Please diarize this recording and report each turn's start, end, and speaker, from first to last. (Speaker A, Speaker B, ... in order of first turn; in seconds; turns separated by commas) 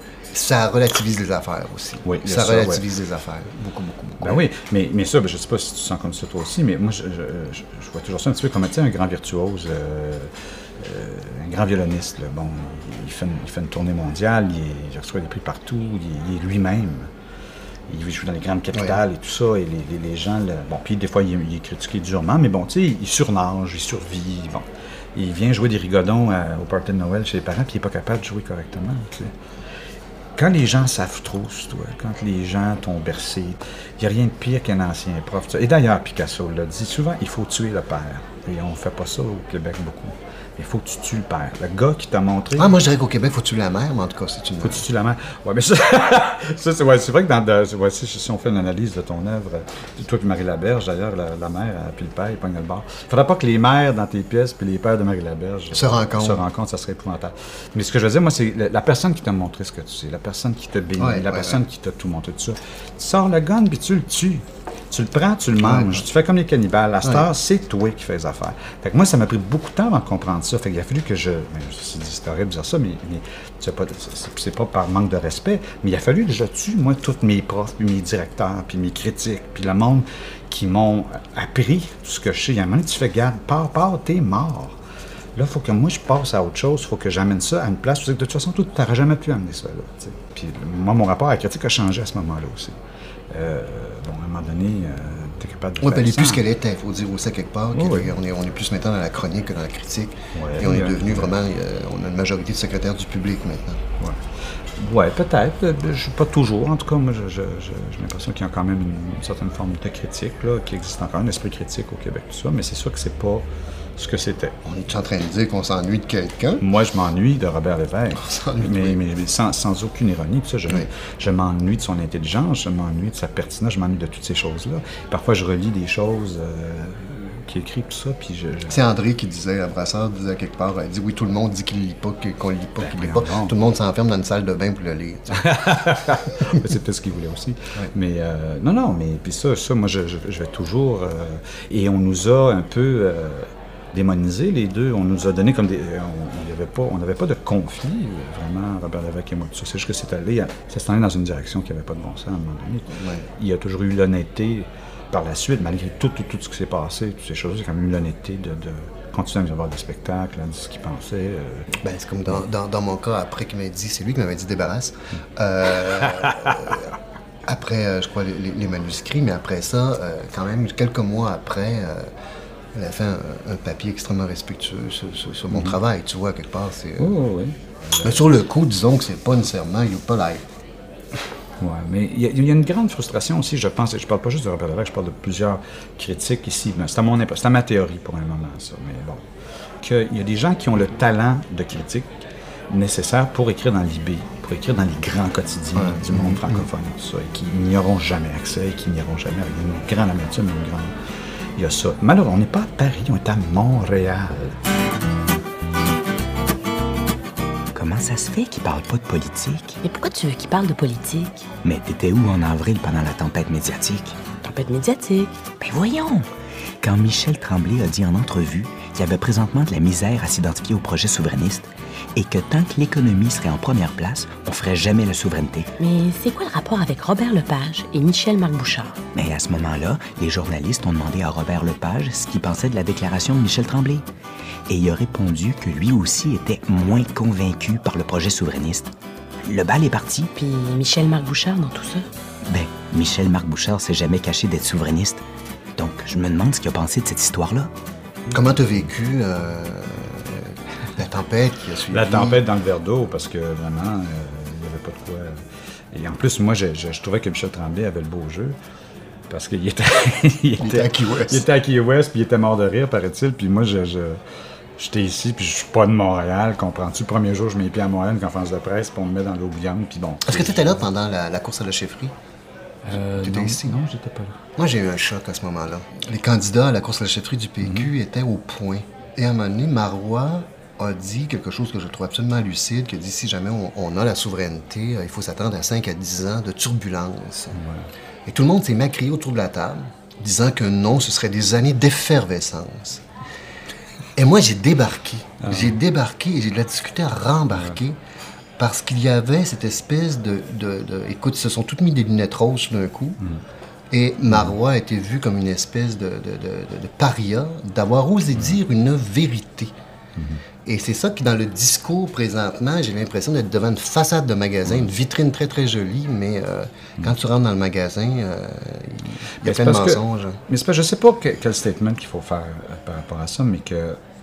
Speaker A: 0.3-4.4, Speaker B: 2.0-2.8, Speaker B: 4.2-17.1, Speaker B: 17.9-29.3, Speaker B: 30.4-42.7, Speaker A: 42.5-44.8, Speaker B: 44.6-84.8, Speaker A: 55.7-56.4, Speaker A: 61.0-61.6, Speaker A: 65.6-66.0, Speaker B: 85.3-92.8, Speaker B: 93.3-96.4, Speaker A: 95.8-103.8, Speaker B: 97.7-98.1, Speaker B: 100.3-101.3, Speaker B: 104.0-114.6, Speaker A: 114.6-116.6, Speaker B: 116.6-128.8, Speaker A: 118.1-119.0, Speaker A: 128.7-135.5, Speaker B: 132.8-133.5, Speaker B: 135.3-161.7, Speaker A: 152.9-153.2, Speaker A: 161.7-166.9, Speaker B: 166.2-166.5, Speaker A: 167.4-172.1, Speaker A: 172.7-177.1, Speaker B: 175.5-175.8, Speaker B: 177.0-178.2, Speaker A: 178.0-180.4, Speaker B: 181.6-189.2, Speaker B: 189.8-200.9, Speaker A: 195.7-196.6, Speaker B: 201.6-204.6, Speaker C: 207.7-209.8, Speaker D: 209.8-211.5, Speaker C: 211.6-214.2, Speaker D: 214.4-215.3, Speaker C: 215.6-216.3, Speaker C: 216.8-225.7, Speaker D: 225.8-229.0, Speaker C: 229.1-234.0, Speaker C: 234.7-238.9, Speaker C: 239.4-240.3, Speaker D: 240.3-242.1, Speaker C: 242.4-245.2, Speaker C: 245.8-247.7, Speaker A: 248.3-252.4, Speaker B: 251.9-255.4, Speaker B: 255.9-258.6, Speaker B: 259.3-264.2, Speaker A: 260.6-261.4, Speaker B: 264.8-270.8, Speaker A: 270.2-272.1, Speaker B: 272.8-274.4, Speaker A: 273.1-273.8, Speaker A: 274.6-287.6, Speaker B: 277.6-277.9, Speaker B: 287.5-287.9, Speaker A: 288.3-293.0, Speaker A: 294.1-298.0, Speaker B: 295.4-295.8, Speaker A: 298.6-303.2, Speaker A: 303.9-309.7, Speaker B: 310.1-310.4, Speaker A: 310.6-320.4, Speaker B: 319.4-324.0